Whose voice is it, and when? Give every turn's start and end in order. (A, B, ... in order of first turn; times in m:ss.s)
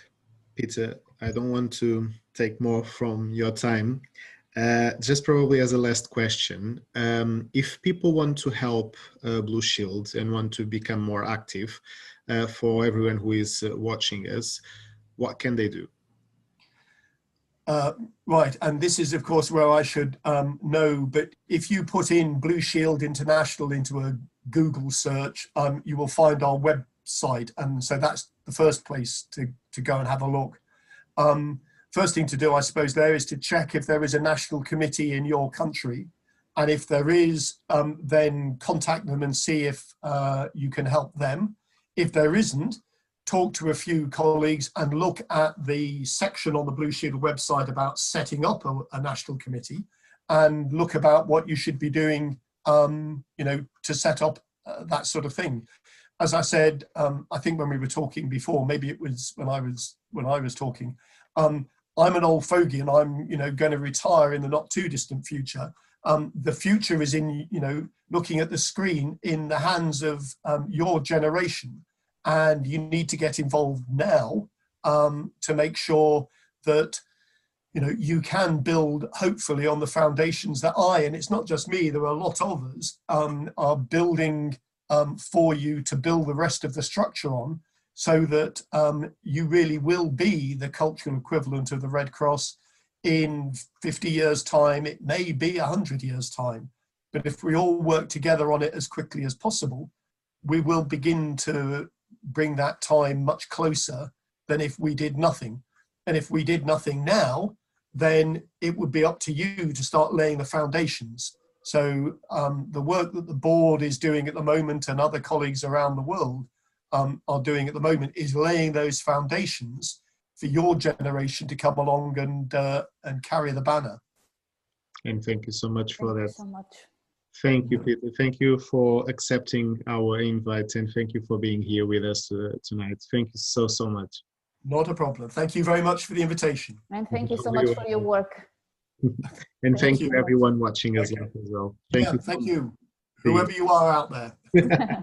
0:00.6-0:04.0 A
0:04.6-0:14.6 A
0:15.2-0:15.9 A
0:17.7-0:30.6 B
0:31.2-0:55.7 B
0:56.2-1:17.0 B
1:17.7-1:39.9 B
1:40.4-2:04.0 B
2:05.0-2:06.4 A
2:06.0-2:06.9 C
2:07.4-2:14.2 A
2:14.6-2:16.8 B
2:16.9-2:18.5 C
2:17.1-2:18.1 A
2:19.1-2:22.4 A
2:19.8-2:20.4 C
2:22.0-2:24.8 B